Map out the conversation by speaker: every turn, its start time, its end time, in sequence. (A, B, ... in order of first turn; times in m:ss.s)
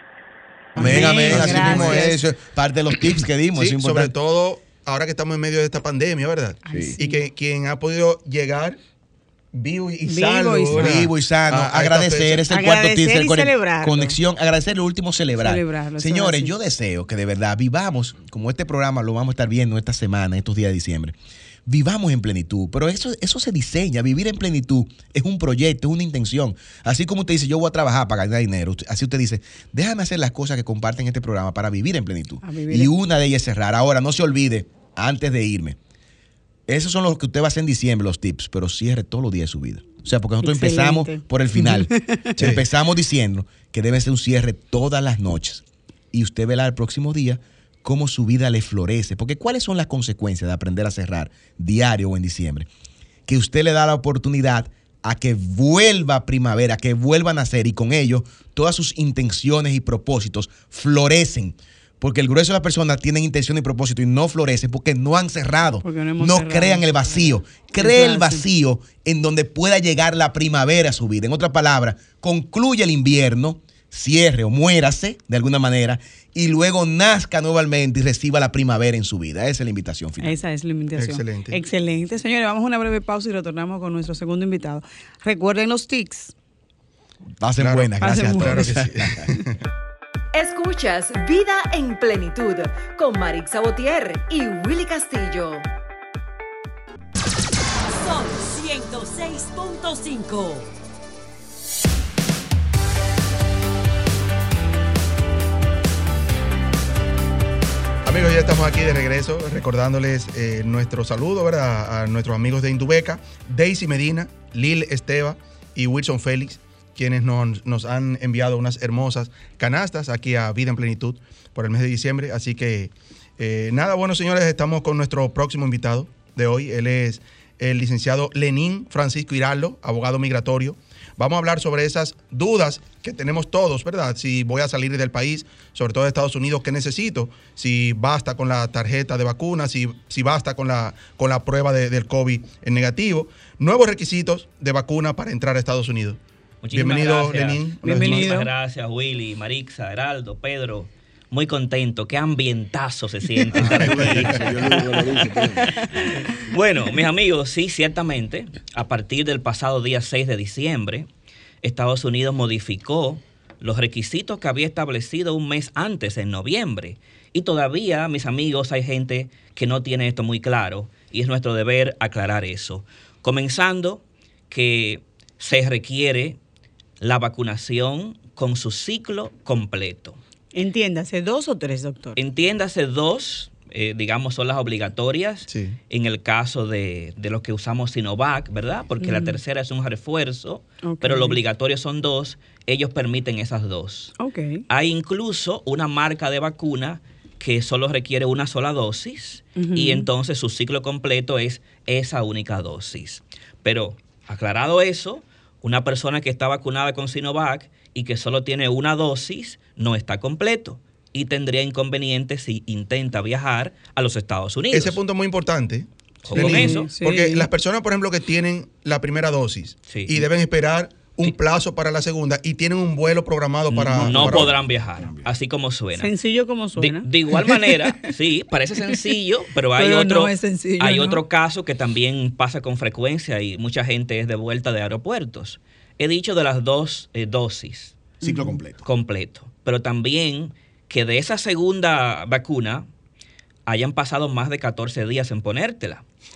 0:00.8-0:02.2 A
0:00.8-0:04.1 B
0:00.8-0:02.0 C
0:03.5-0:08.8 C
0:06.6-0:07.2 A
0:06.7-0:07.0 B
0:09.5-0:12.4 C
0:10.1-0:10.9 A
0:10.7-0:21.1 B
0:12.5-0:14.2 A
0:15.4-0:16.5 A
0:21.6-0:35.8 B
0:32.4-0:32.9 A
0:36.7-0:52.7 B
0:40.4-0:42.3 A
0:42.4-0:42.6 C
0:53.2-1:20.4 B
1:05.8-1:06.9 A
1:07.8-1:08.4 A
1:20.2-1:26.3 A
1:21.0-1:21.6 C
1:27.4-1:29.3 B
1:27.6-1:29.6 C
1:28.0-1:28.7 A
1:30.3-1:35.6 D
1:37.8-1:40.7 D
1:48.0-2:26.2 C
2:26.6-2:41.1 E
2:26.7-2:28.3 C
2:27.8-2:28.5 A
2:33.5-2:36.1 B
2:41.6-2:56.4 E
2:57.0-3:00.2 E
3:00.5-3:02.2 A
3:02.2-3:14.2 E
3:05.5-3:05.8 C
3:09.0-3:09.4 A
3:10.8-3:11.4 A
3:14.2-3:14.6 A
3:14.7-3:35.0 E
3:19.6-3:20.1 A
3:34.7-3:44.5 C
3:36.2-3:36.9 E
3:36.3-3:37.5 A
3:39.9-3:40.3 E
3:43.7-3:46.1 E
3:44.0-3:45.3 B
3:46.0-3:48.1 A
3:46.8-3:58.1 E
3:49.8-3:51.2 A
3:58.2-3:58.8 B
3:58.2-3:58.5 A
3:58.8-4:02.9 E
4:03.7-4:06.0 E